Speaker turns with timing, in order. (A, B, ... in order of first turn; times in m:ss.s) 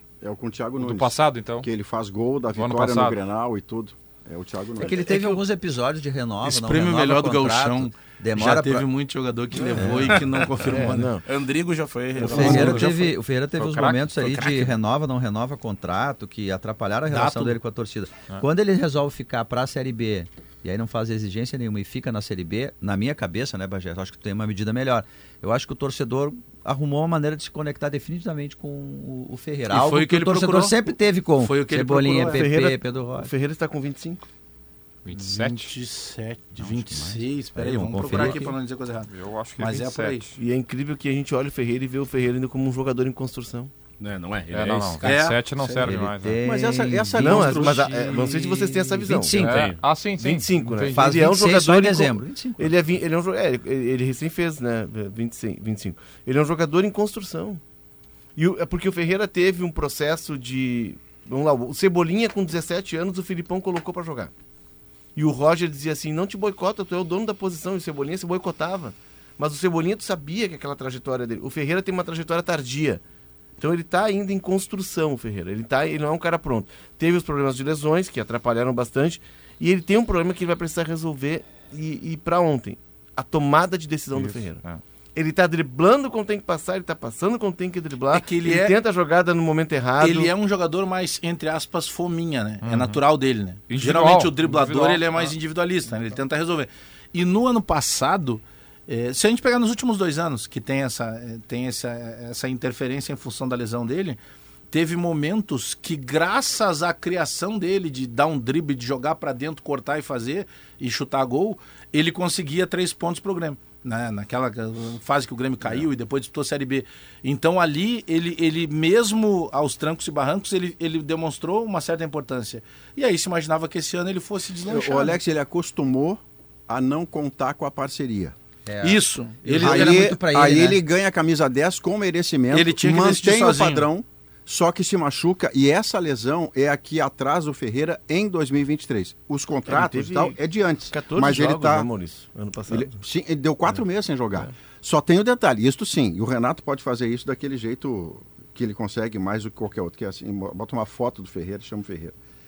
0:00.2-0:05.0 A
0:00.8-0:01.7 B
0:02.6-0:03.2 B
0:04.8-0:08.9 C
0:05.1-0:05.4 D
0:06.4-0:11.2 D
0:09.6-0:10.1 E
0:09.8-0:10.2 C
0:10.7-0:11.2 E
0:11.2-0:13.1 F
0:12.2-0:33.3 C
0:12.2-0:12.5 E
0:12.3-0:12.9 D
0:13.6-0:14.4 B
0:14.2-0:14.7 F
0:17.1-0:17.6 D
0:29.7-0:30.9 D
0:31.4-0:32.5 D
0:32.2-0:34.2 E
0:35.0-0:35.7 B
0:35.1-0:40.3 D
0:36.6-0:38.5 C
0:38.1-0:38.4 B
0:39.1-0:40.3 B
0:40.4-0:43.7 E
0:44.0-0:45.1 F
0:44.5-0:46.4 B
0:45.0-0:45.9 D
0:45.8-0:48.0 C
0:46.4-0:48.4 A
0:47.2-0:49.4 E
0:48.9-0:49.7 C
0:49.2-0:51.0 B
0:49.4-0:49.8 F
0:50.2-0:57.6 E
0:50.9-0:52.7 C
0:58.4-1:04.3 E
1:05.1-1:13.0 E
1:13.6-1:24.6 E
1:24.1-1:24.8 B
1:25.1-1:30.3 E
1:28.1-1:28.7 D
1:30.0-1:44.2 D
1:32.6-1:33.0 B
1:33.7-1:35.3 B
1:44.7-2:05.2 D
2:04.6-2:08.3 A
2:08.7-2:10.8 C
2:08.8-2:09.9 D
2:09.5-2:21.9 A
2:12.5-2:13.9 D
2:19.7-2:20.4 E
2:20.9-2:23.0 E
2:22.7-2:32.1 A